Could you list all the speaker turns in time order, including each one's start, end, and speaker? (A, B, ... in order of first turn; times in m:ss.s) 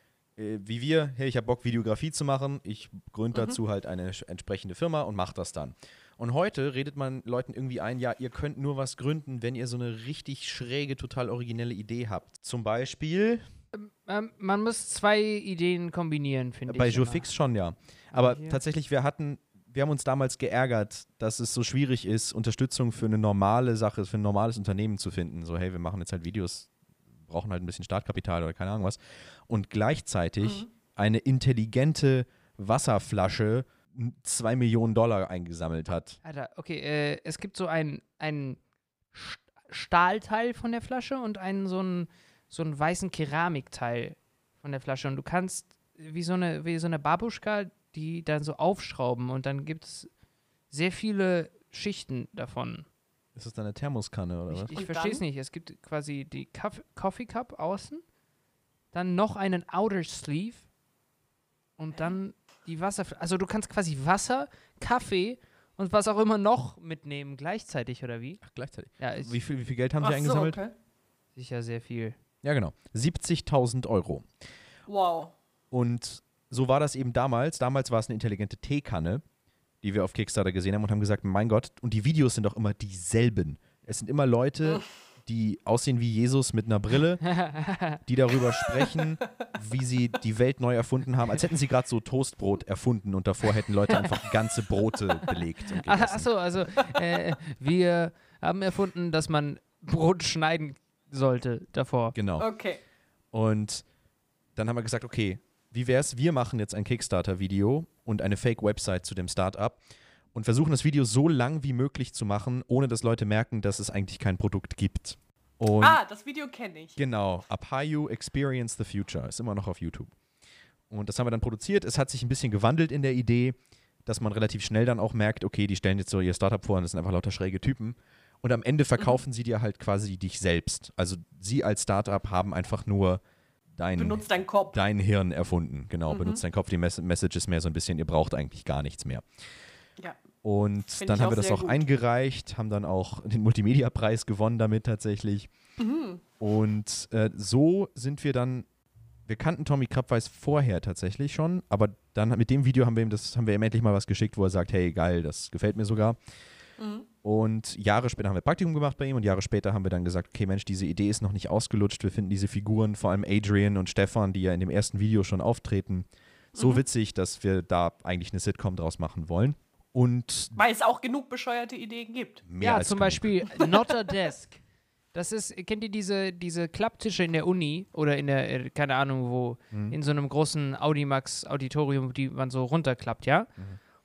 0:00.4-0:13.4 A
0:03.3-0:03.6 B
0:13.7-0:17.2 C
0:16.7-0:26.7 A
0:18.1-0:18.6 C
0:27.2-0:36.2 A
0:30.4-0:30.7 B
0:36.2-0:38.6 C
0:39.1-0:50.1 C
0:50.7-0:52.9 C
0:53.3-0:54.7 A
0:54.5-0:58.0 C
0:54.7-0:55.2 B
0:58.9-1:00.6 C
1:01.8-1:08.4 C
1:08.4-1:10.6 A
1:09.0-1:09.3 C
1:10.0-1:10.7 B
1:11.4-1:12.2 C
1:12.4-1:14.3 A
1:14.9-1:15.3 B
1:15.7-1:19.2 A
1:19.8-1:27.2 A
1:27.2-1:28.0 C
1:28.0-1:36.9 A
1:35.8-1:42.2 C
1:42.1-1:42.5 A
1:42.4-1:42.8 B
1:43.3-1:43.8 A
1:44.6-1:49.8 A
1:50.3-1:56.0 A
1:55.8-1:57.0 B
1:57.0-2:00.1 A
2:00.9-2:13.2 A
2:13.7-2:19.2 A
2:14.0-2:14.8 B
2:16.1-2:16.4 B
2:20.4-2:25.5 A
2:21.0-2:21.8 B
2:25.8-2:26.2 B
2:26.4-2:28.6 A
2:29.2-2:36.2 A
2:36.8-2:37.1 B
2:37.2-2:50.6 A
2:46.6-2:46.8 B
2:50.6-2:52.4 B
2:52.4-2:53.2 A
2:52.6-2:54.6 C
2:53.6-2:54.1 B
2:55.1-3:03.5 C
2:59.7-3:00.0 A